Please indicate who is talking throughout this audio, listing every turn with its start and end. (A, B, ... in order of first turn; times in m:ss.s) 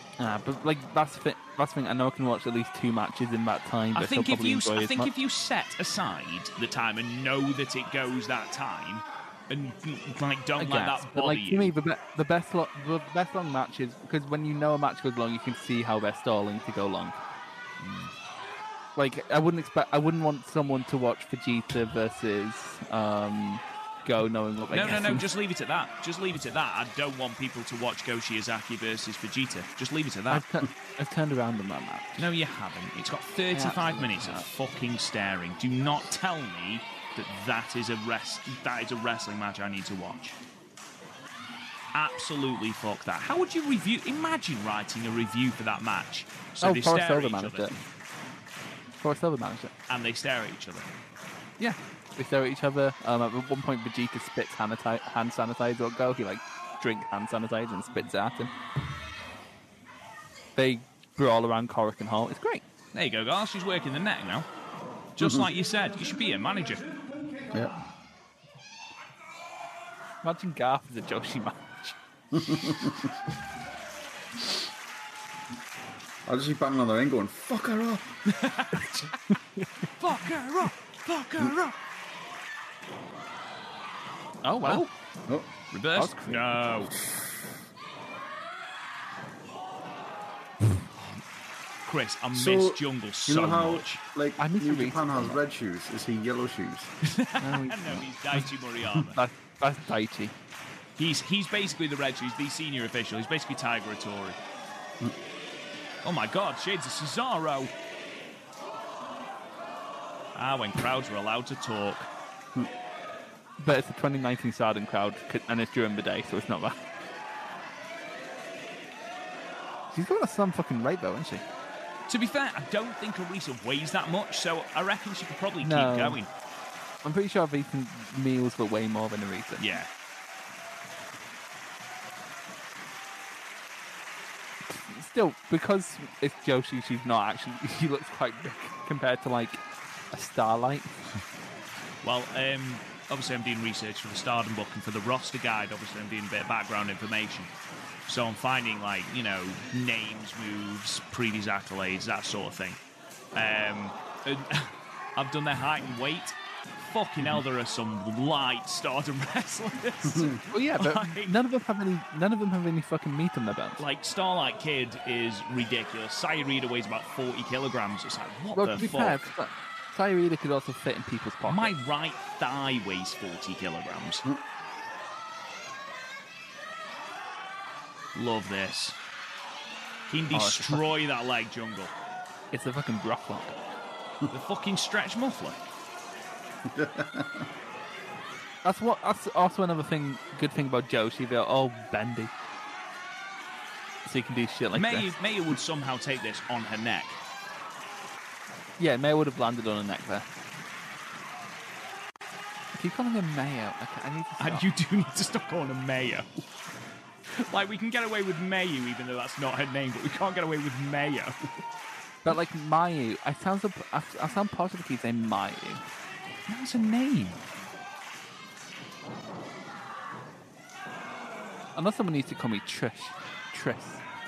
0:00.2-0:05.1 A
0:03.9-0:11.7 B
0:10.6-0:17.2 A
0:17.8-0:18.1 B
0:19.0-0:25.2 A
0:24.7-0:30.4 B
0:30.3-0:32.3 A
0:32.2-0:40.4 B
0:33.5-0:34.4 A
0:41.9-0:47.7 B
0:46.6-0:47.8 A
0:49.0-0:49.7 A
0:49.9-0:50.9 B
0:51.6-0:58.5 A
1:00.6-1:02.6 A
1:02.9-1:04.5 B
1:05.2-1:06.9 B
1:05.2-1:05.5 C
1:07.5-1:07.8 C
1:10.2-1:11.9 A
1:12.3-1:13.1 C
1:16.2-1:18.2 C
1:18.3-1:19.0 B
1:20.0-1:21.7 B
1:24.4-1:24.9 A
1:24.6-1:24.9 B
1:25.7-1:26.9 B
1:25.9-1:26.5 A
1:31.8-1:34.0 B
1:32.3-1:36.9 C
1:34.4-1:35.4 A
1:37.0-1:39.2 B
1:37.4-1:40.3 A
1:41.0-1:44.4 B
1:46.0-1:47.7 B
1:50.3-1:52.1 B
1:53.6-1:56.8 A
1:59.9-2:01.4 A
2:02.1-2:06.3 B
2:05.6-2:06.2 A
2:07.0-2:09.6 A
2:09.6-2:09.9 B
2:14.7-2:20.9 A
2:22.0-2:27.5 B
2:28.1-2:32.8 B
2:33.3-2:41.3 B
2:40.1-2:40.4 C
2:40.5-2:43.8 A
2:43.8-2:49.2 B
2:48.5-2:51.7 A
2:51.4-2:54.2 B
2:58.1-2:59.0 B
3:00.1-3:01.9 B
3:00.3-3:00.8 A
3:02.5-3:03.6 A
3:04.3-3:05.7 B
3:06.6-3:07.5 C
3:08.6-3:12.3 A
3:14.0-3:15.1 A
3:14.7-3:17.2 B
3:18.8-3:20.3 A
3:22.7-3:24.6 A
3:24.4-3:26.3 B
3:27.4-3:31.4 B
3:32.2-3:35.8 A
3:36.5-3:37.4 B
3:41.7-3:44.0 A